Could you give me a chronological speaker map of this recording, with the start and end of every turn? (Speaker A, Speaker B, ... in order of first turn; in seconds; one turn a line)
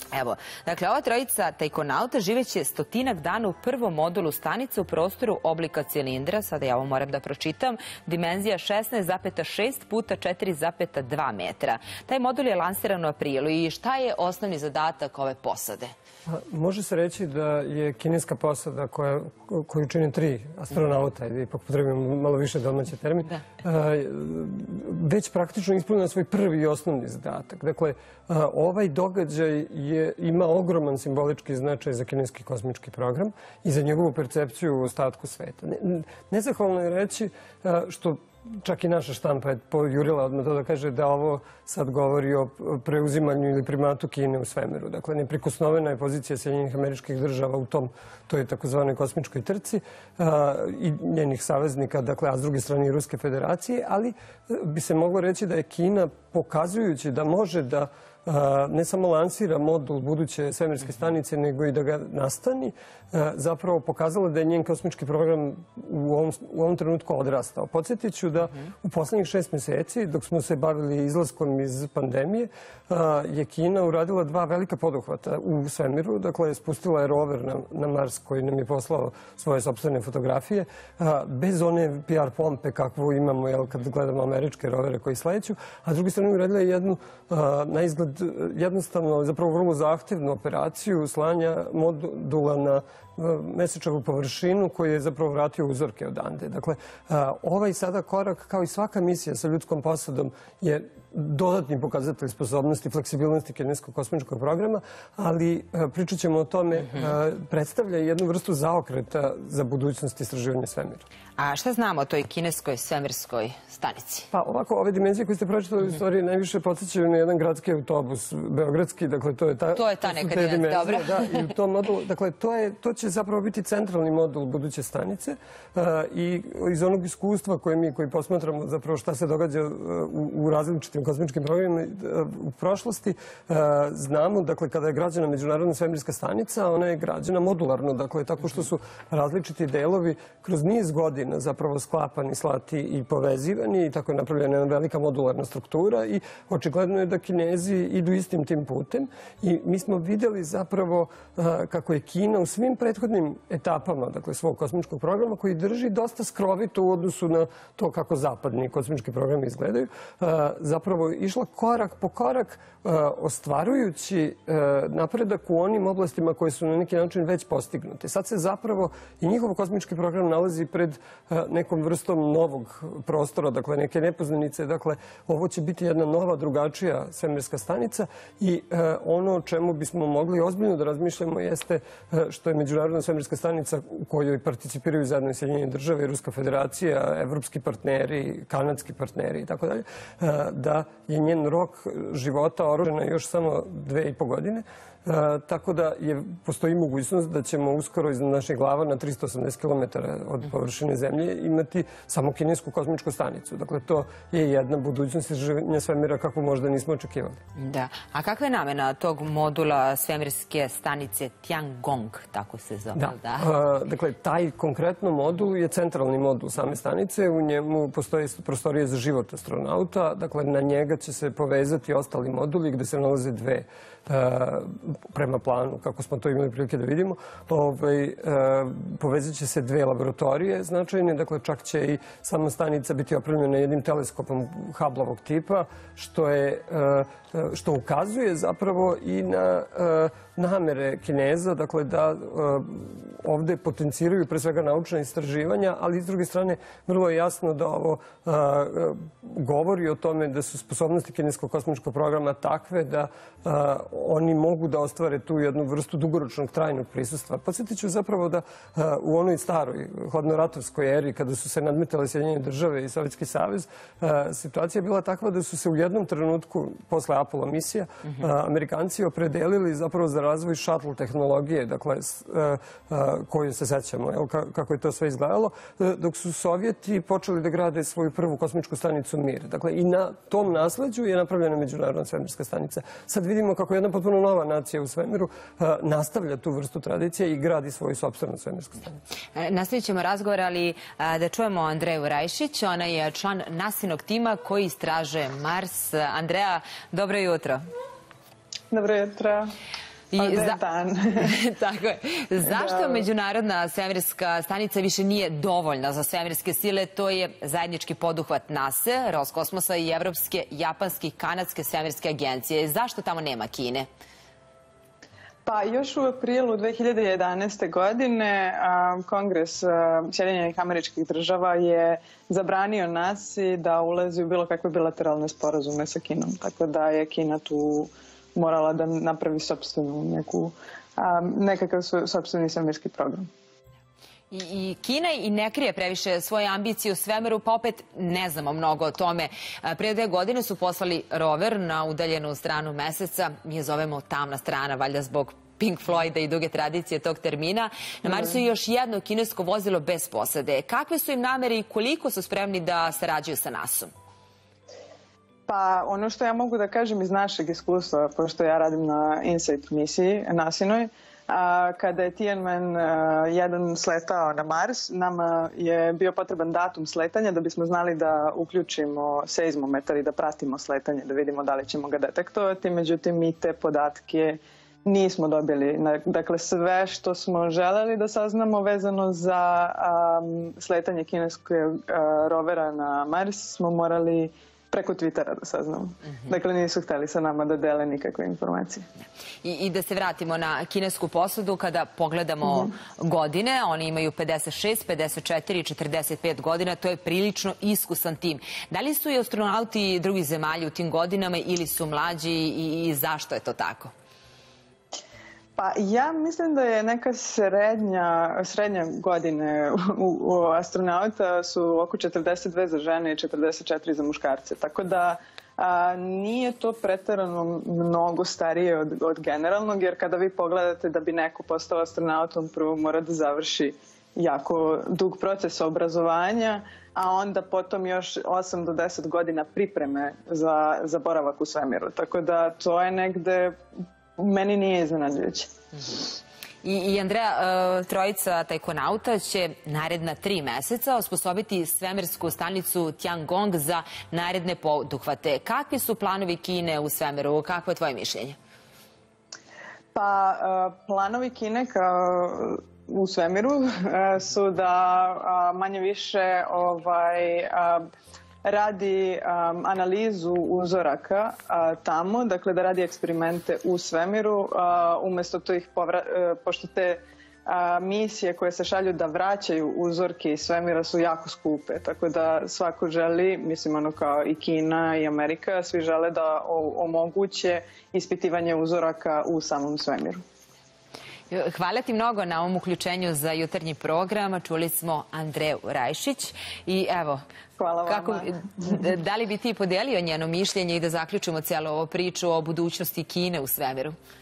Speaker A: 0.1-15.9
Speaker B: 16.3-111.0
Speaker A: 111.4-114.3
Speaker B: 114.3-207.4
Speaker A: 119.7-121.4
Speaker A: 207.6-213.5
Speaker B: 212.9-288.9
Speaker A: 289.3-297.6
Speaker C: 298.7-299.5
Speaker A: 300.1-300.6
Speaker C: 300.2-301.4
Speaker A: 301.2-313.9
Speaker C: 302.5-303.1
Speaker C: 315.4-333.3
Speaker A: 334.3-353.9
Speaker C: 355.5-388.9
Speaker A: 389.4-403.9
Speaker C: 405.6-433.6
Speaker C: 434.2-435.5
Speaker A: 436.6-448.4
Speaker C: 449.9-457.8
Speaker C: 458.4-480.2
Speaker A: 481.3-487.2
Speaker C: 487.6-488.3
Speaker A: 487.9-493.9